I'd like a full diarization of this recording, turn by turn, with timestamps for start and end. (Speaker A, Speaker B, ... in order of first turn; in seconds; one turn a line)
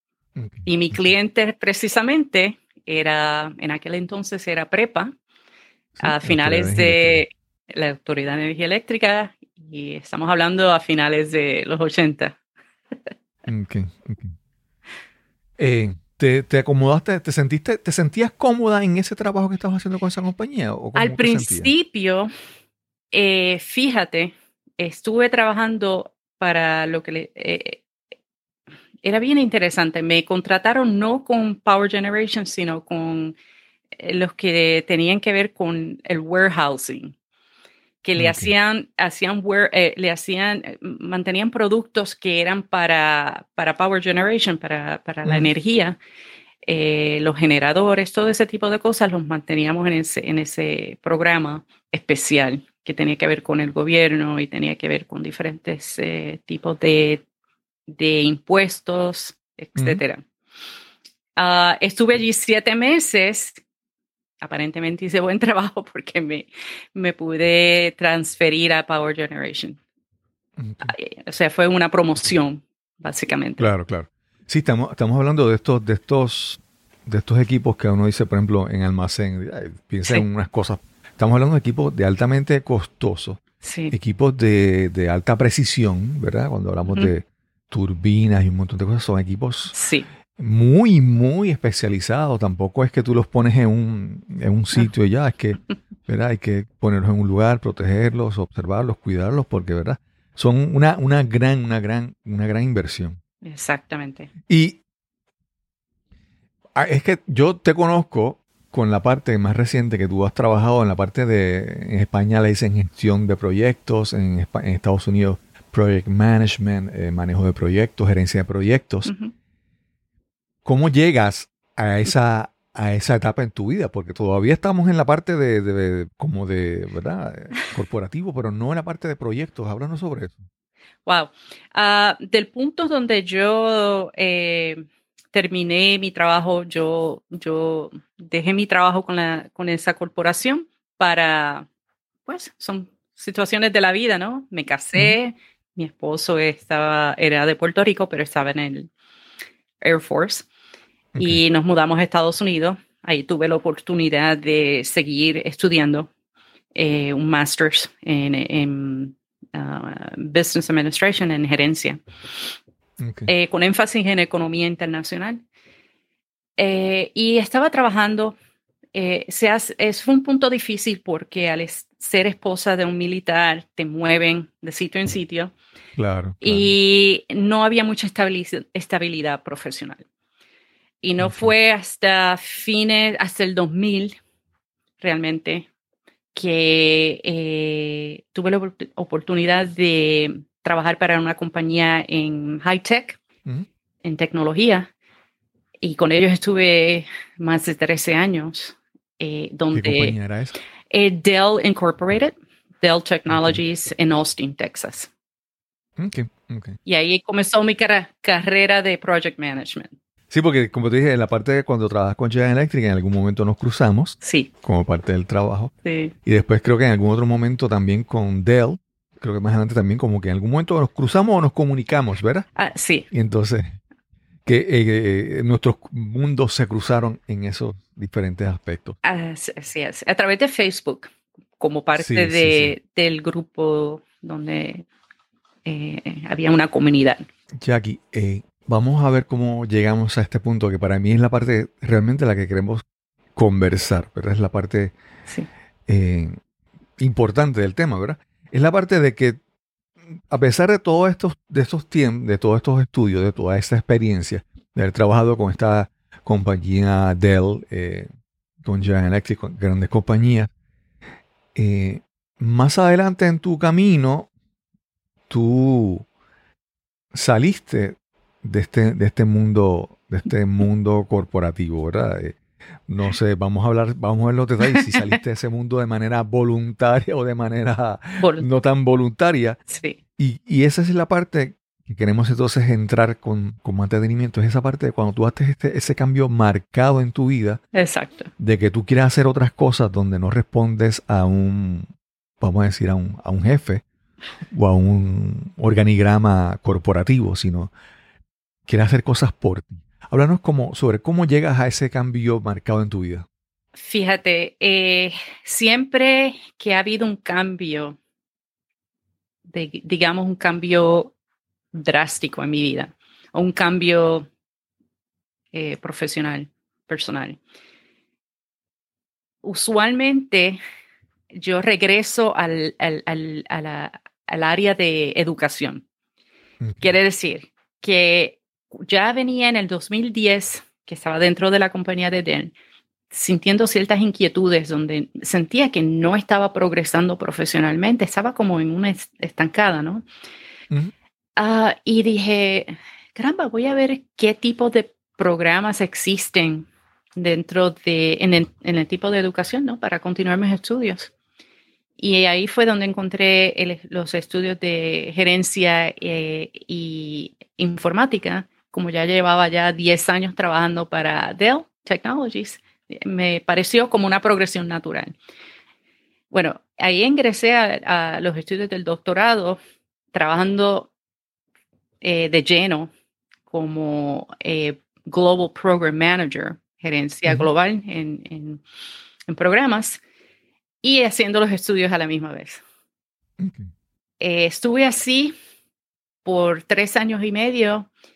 Speaker A: 0.4-1.1
Speaker B: 0.7-5.1
Speaker A: 6.0-7.2
Speaker B: 6.0-12.4
Speaker A: 13.5-14.3
Speaker A: 15.6-21.7
Speaker B: 21.0-22.3
Speaker B: 23.1-27.8
Speaker B: 29.0-33.4
Speaker B: 34.0-37.1
Speaker B: 38.0-46.0
Speaker A: 38.2-38.5
Speaker B: 46.6-57.2
Speaker B: 57.9-60.2
Speaker A: 59.8-60.0
Speaker B: 61.4-63.6
Speaker B: 64.4-69.8
Speaker A: 70.6-70.9
Speaker B: 70.8-73.7
Speaker A: 73.6-89.8
Speaker B: 83.6-83.9
Speaker B: 89.7-90.1
Speaker A: 90.4-103.2
Speaker B: 103.4-104.3
Speaker A: 104.5-104.8
Speaker A: 106.8-119.1
Speaker B: 119.1-119.3
Speaker A: 120.7-130.4
Speaker B: 131.1-141.7
Speaker B: 142.2-148.9
Speaker B: 149.8-150.5
Speaker A: 151.2-151.4
Speaker B: 151.2-156.1
Speaker B: 156.8-162.0
Speaker A: 163.0-163.3
Speaker B: 163.2-165.4
Speaker B: 166.6-168.4
Speaker B: 168.9-175.5
Speaker A: 176.0-176.7
Speaker B: 176.4-180.1
Speaker B: 181.0-184.2
Speaker A: 181.2-181.5
Speaker B: 185.0-185.7
Speaker B: 186.3-193.2
Speaker B: 194.0-194.9
Speaker B: 195.8-200.2
Speaker A: 199.7-200.6
Speaker B: 200.9-205.1
Speaker A: 203.3-203.6
Speaker A: 206.0-206.8
Speaker B: 206.9-209.9
Speaker A: 210.3-215.7
Speaker B: 214.2-214.5
Speaker B: 215.8-216.1
Speaker A: 216.2-222.5
Speaker B: 222.6-223.1
Speaker A: 223.1-223.8
Speaker A: 224.5-229.0
Speaker B: 229.0-234.9
Speaker A: 232.0-232.8
Speaker B: 235.7-237.2
Speaker A: 237.6-242.8
Speaker A: 243.3-244.9
Speaker A: 245.9-246.4
Speaker A: 247.0-249.4
Speaker A: 250.3-258.1
Speaker A: 258.6-260.5
Speaker A: 261.6-264.3
Speaker A: 265.3-266.1
Speaker A: 267.1-279.6
Speaker B: 278.2-278.5
Speaker B: 279.7-280.0
Speaker A: 280.2-287.6
Speaker B: 287.7-288.3
Speaker A: 288.4-291.9
Speaker A: 292.4-293.8
Speaker A: 294.5-297.7
Speaker A: 298.7-303.2
Speaker B: 303.8-308.0
Speaker B: 309.5-311.1
Speaker B: 311.7-314.3
Speaker B: 315.5-317.4
Speaker B: 319.4-320.6
Speaker B: 321.3-325.9
Speaker A: 326.6-326.9
Speaker B: 326.8-332.5
Speaker B: 333.1-340.0
Speaker B: 341.4-351.1
Speaker B: 352.0-365.1
Speaker B: 366.3-369.6
Speaker B: 370.1-370.9
Speaker B: 372.0-372.9
Speaker B: 373.5-378.6
Speaker B: 379.3-380.0
Speaker B: 380.8-382.6
Speaker A: 383.4-383.7
Speaker B: 384.2-385.4
Speaker B: 386.2-387.9